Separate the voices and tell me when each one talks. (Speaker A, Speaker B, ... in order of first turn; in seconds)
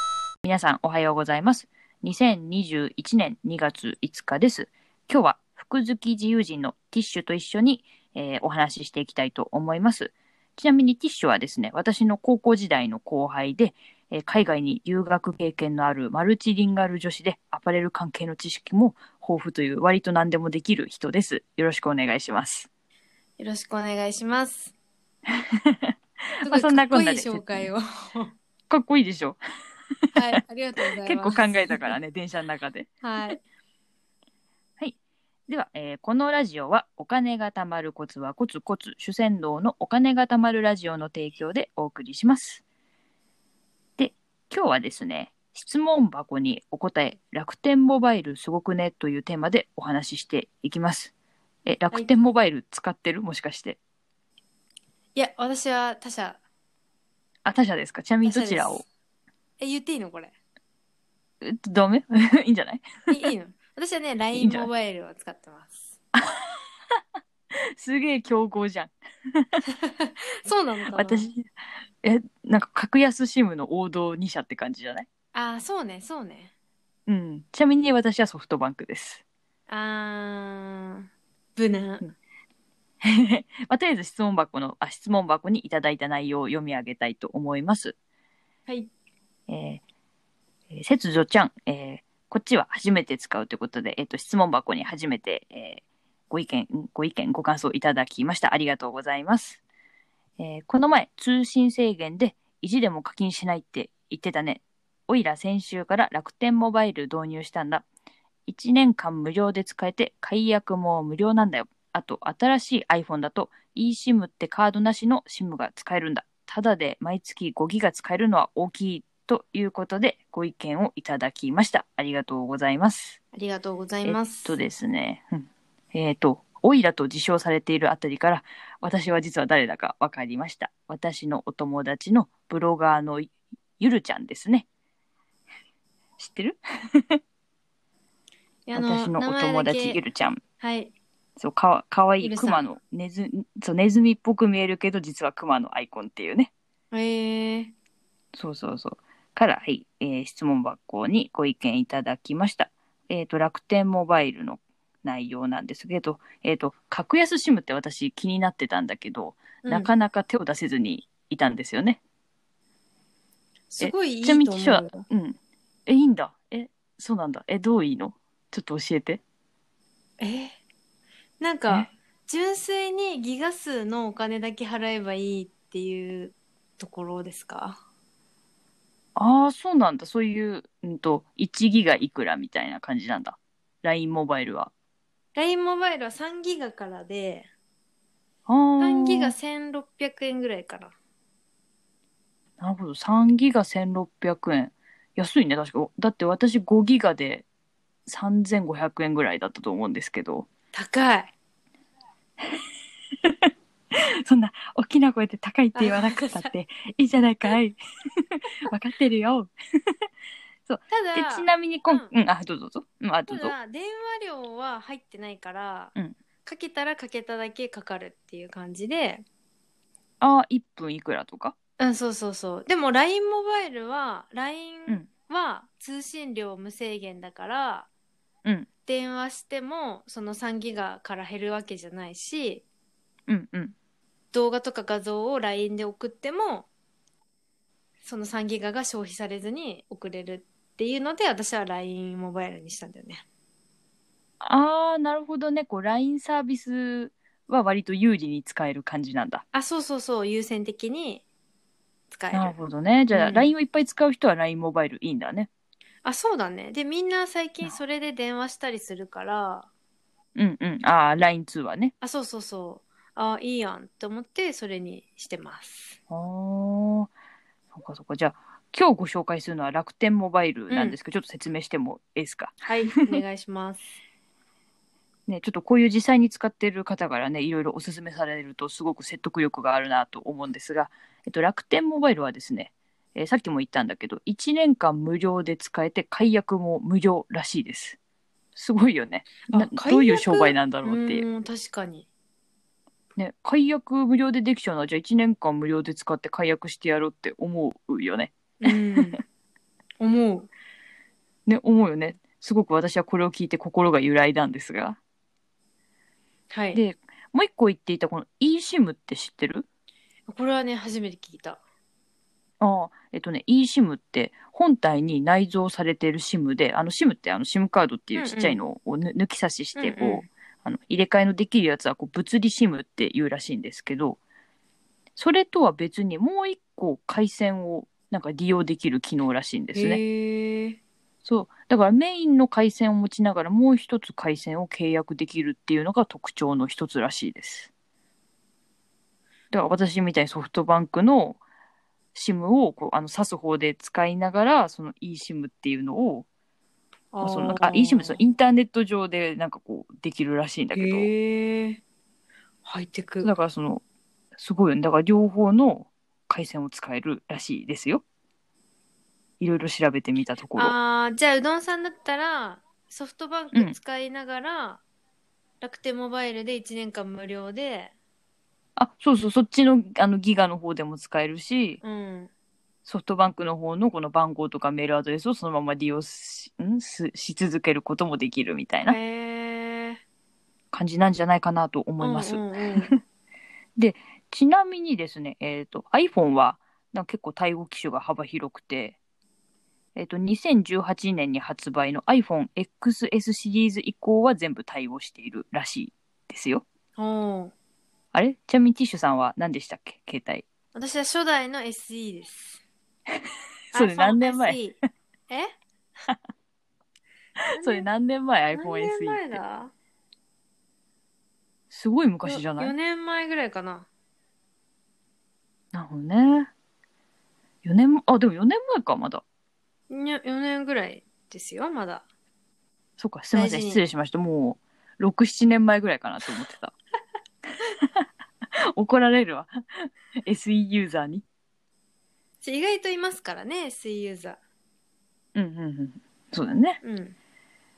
Speaker A: 0.4-22.7, 25.6-27.7, 28.7-29.4, 31.0-33.4, 35.5-42.6, 44.0-51.1, 51.7-53.8, 57.5-58.9, 61.4-62.9, 64.3-64.7, 67.8-69.6, 70.9-71.5, 72.0-75.1, 77.1-79.2, 83.0-88.0, 89.5-89.8, 90.7-99.6, 100.4-107.9, 108.5-123.2, 124.0-134.7, 136.2-137.2, 138.7-140.4, 141.4-146.5, 148.3-162.0, 163.8-169.2, 179.2-184.7, 188.5-189.3, 192.6-197.5, 198.1-200.5, 203.2-207.8, 208.7-209.9, 210.7-213.6, 220.2-221.6, 233.3-233.8, 244.4-249.4, 252.3-255.5, 260.4-261.9, 266.1-267.1, 267.7-272.7, 275.3-288.0, 288.6-291.2, 293.2-299.2, 301.5-305.0, 306.7-309.7, 312.6-324.2, 325.2-330.0, 331.2-337.7, 339.5-341.4, 342.1-346.3, 347.2-351.1, 353.2-353.8, 354.4-358.0, 359.4-360.8, 368.8-371.8, 372.9-379.0, 380.7-383.0, 383.8-389.0, 389.9-396.6, 398.1-400.4, 403.7-404.7, 407.6-409.4, 411.7-412.7, 415.7-416.5, 417.6-419.2, 423.0-426.8, 428.8-431.2, 435.4-436.8
Speaker B: 23.4-24.7, 26.4-28.3, 30.1-31.9, 33.0-33.4, 55.1-56.4, 58.2-58.8, 59.6-60.3, 63.1-65.9, 69.9-71.3, 75.3-76.5, 79.7-82.1, 123.3-124.6, 138.7-140.0, 140.6-140.9, 142.2-142.7, 146.9-147.7, 159.6-159.9, 163.7-165.1, 170.2-170.5, 171.4-177.8, 185.3-187.5, 188.8-190.9, 200.7-201.3, 205.8-206.5, 210.9-212.1, 213.3-215.9, 216.4-219.2, 221.8-227.9, 228.9-232.6, 234.3-236.7, 238.0-243.2, 249.5-251.2, 252.1-252.6, 253.1-253.5, 256.0-259.7, 262.0-266.0, 270.7-271.0, 272.7-274.0, 289.5-292.1, 298.6-299.2, 300.0-300.5, 306.5-306.8, 310.3-311.6, 318.2-318.6, 319.8-320.3, 329.7-330.8, 347.1-348.2, 350.7-351.8, 352.6-353.3, 360.6-364.8, 365.6-367.9, 371.8-372.3, 378.9-380.0, 382.0-382.9, 397.0-397.5, 400.7-402.6, 403.7-404.8, 407.6-407.9, 408.5-409.7, 412.2-413.9, 419.9-422.1, 423.3-423.8, 432.4-434.4, 436.8-437.2